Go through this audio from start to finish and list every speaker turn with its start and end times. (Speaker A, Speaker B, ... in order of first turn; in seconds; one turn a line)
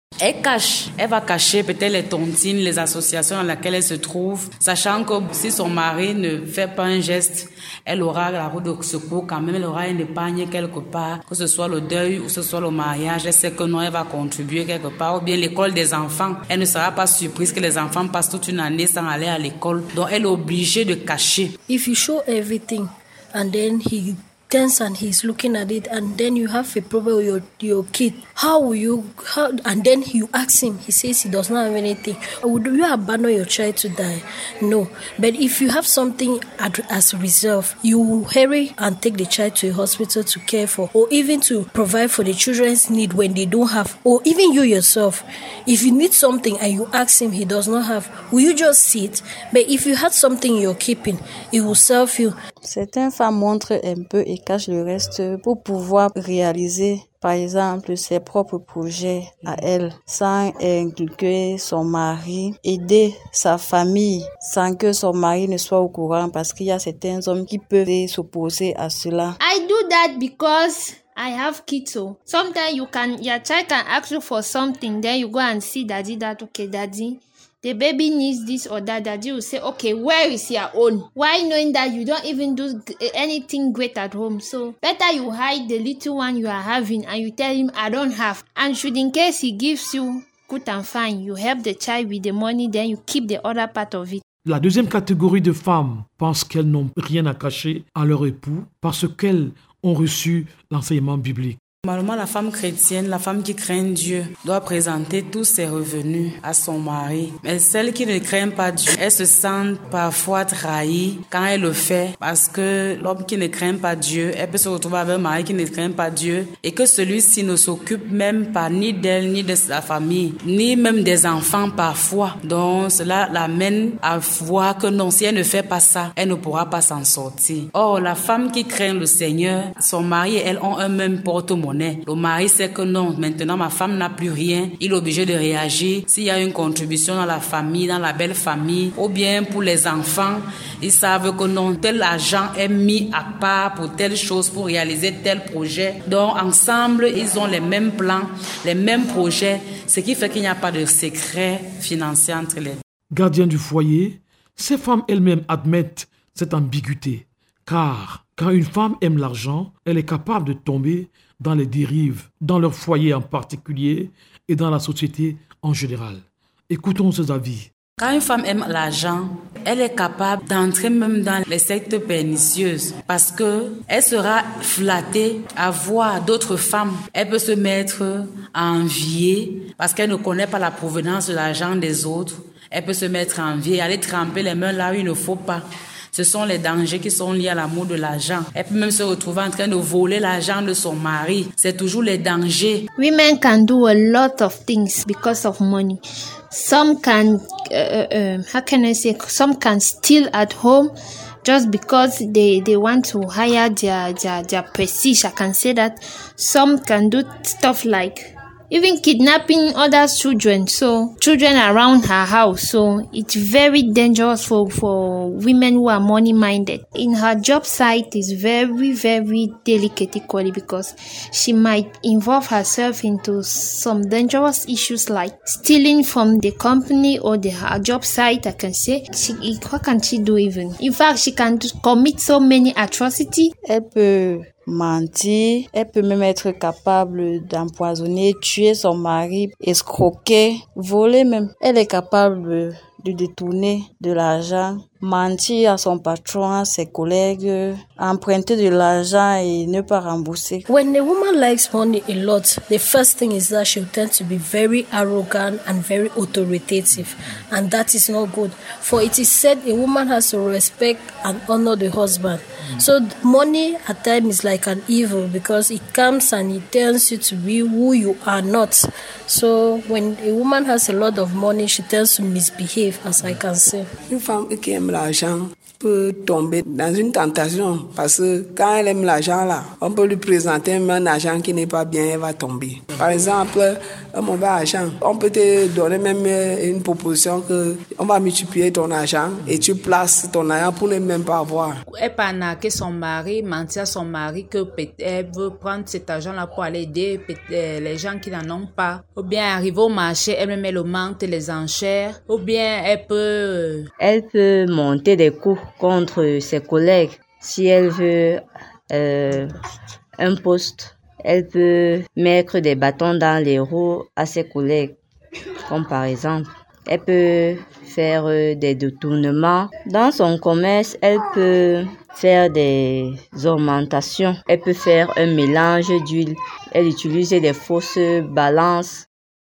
Speaker A: 0.2-21.5
Speaker B: 21.7-52.4
Speaker C: 52.6-69.4
Speaker D: 69.4-94.2
Speaker E: 94.4-101.6
Speaker A: 101.8-152.8
Speaker E: 153.1-167.7
Speaker A: 168.0-192.9
Speaker D: 193.0-200.9
Speaker D: 201.4-233.5
Speaker C: 233.6-250.7
Speaker B: 250.7-273.9
Speaker F: 274.1-291.8
Speaker G: 291.9-303.9
Speaker H: 304.0-309.5
Speaker H: 310.2-315.0
Speaker H: 315.6-329.1